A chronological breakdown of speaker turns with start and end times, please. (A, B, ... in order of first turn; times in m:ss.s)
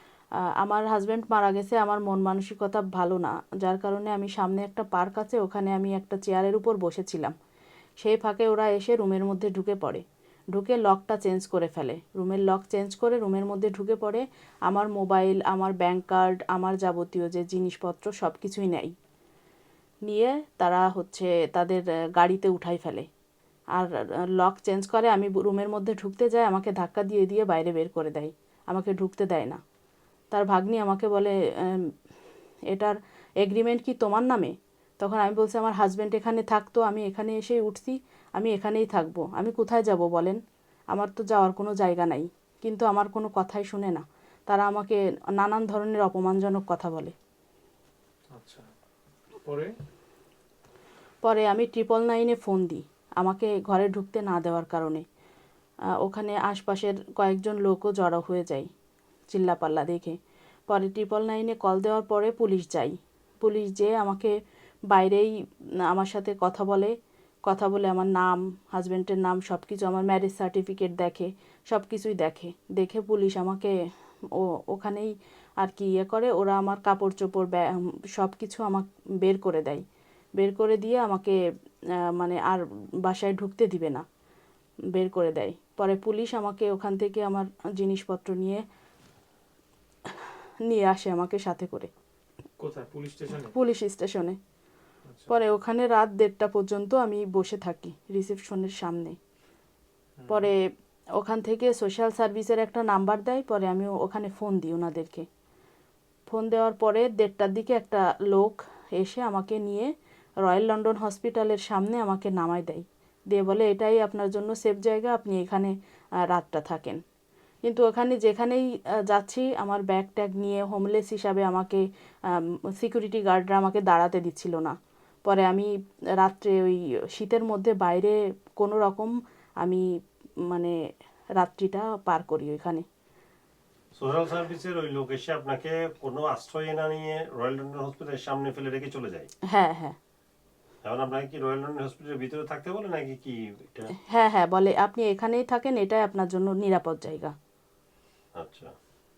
0:00.6-0:07.3 A
0:08.0-0:18.9 A
0:20.0-0:23.1 A
0:23.8-0:29.6 A
0:30.3-0:31.9 A
0:32.7-0:40.4 A
0:40.9-0:47.1 A
0:48.4-0:48.7 B
0:51.2-0:55.0 A
0:56.0-0:58.7 A
0:59.3-1:00.2 A
1:00.7-1:04.3 A
1:04.9-1:05.3 A
1:05.9-1:06.9 A
1:07.5-1:13.7 A
1:14.3-1:19.8 A
1:20.4-1:21.4 A
1:22.0-1:24.0 A
1:24.9-1:28.6 A
1:30.1-1:31.9 A
1:32.6-1:33.5 B
1:33.5-1:34.4 A
1:35.1-1:35.3 B
1:35.3-1:39.2 A
1:40.2-1:40.5 B
1:40.3-1:40.6 A
1:41.2-1:45.2 A
1:46.3-1:49.9 A
1:50.4-1:55.7 A
1:56.2-1:57.0 A
1:57.6-2:09.8 A
2:10.5-2:10.8 A
2:11.4-2:12.8 A
2:14.0-2:19.3 C
2:19.5-2:20.0 A
2:20.8-2:23.9 C
2:24.1-2:27.3 A
2:28.4-2:28.7 C